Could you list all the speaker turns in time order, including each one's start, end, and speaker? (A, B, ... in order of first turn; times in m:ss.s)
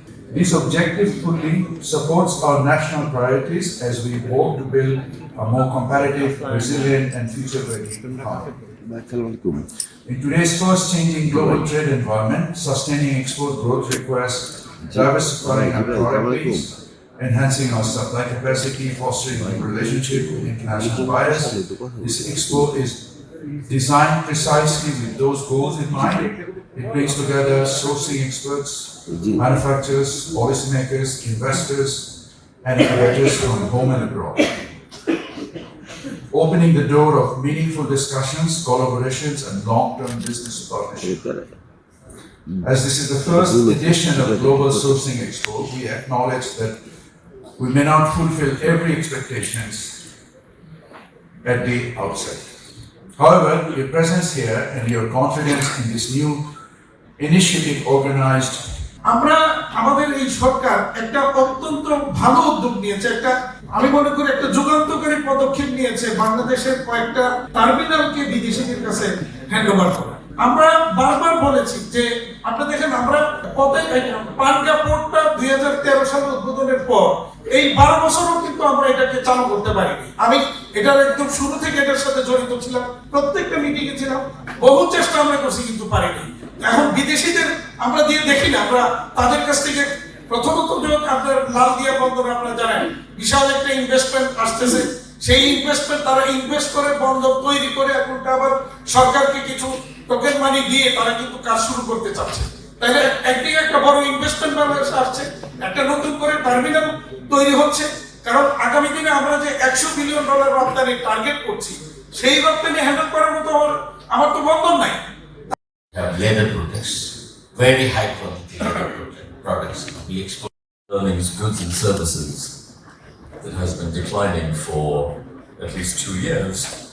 0:00.3-0:08.5 A
0:08.8-0:09.7 B
0:10.1-0:23.1 A
0:11.3-0:11.7 B
0:14.8-0:16.7 B
0:19.3-0:22.8 B
0:23.7-0:34.5 A
0:29.1-0:29.4 B
0:36.3-0:41.2 A
0:41.0-0:41.6 B
0:42.6-0:46.8 A
0:43.3-0:45.0 B
0:47.6-0:50.0 A
0:51.4-0:52.4 A
0:53.2-0:56.4 A
0:57.2-0:58.7 A
0:59.1-1:55.0 C
1:56.0-1:56.2 D
1:56.2-2:00.4 B
2:00.9-2:02.5 D
2:03.4-2:06.7 D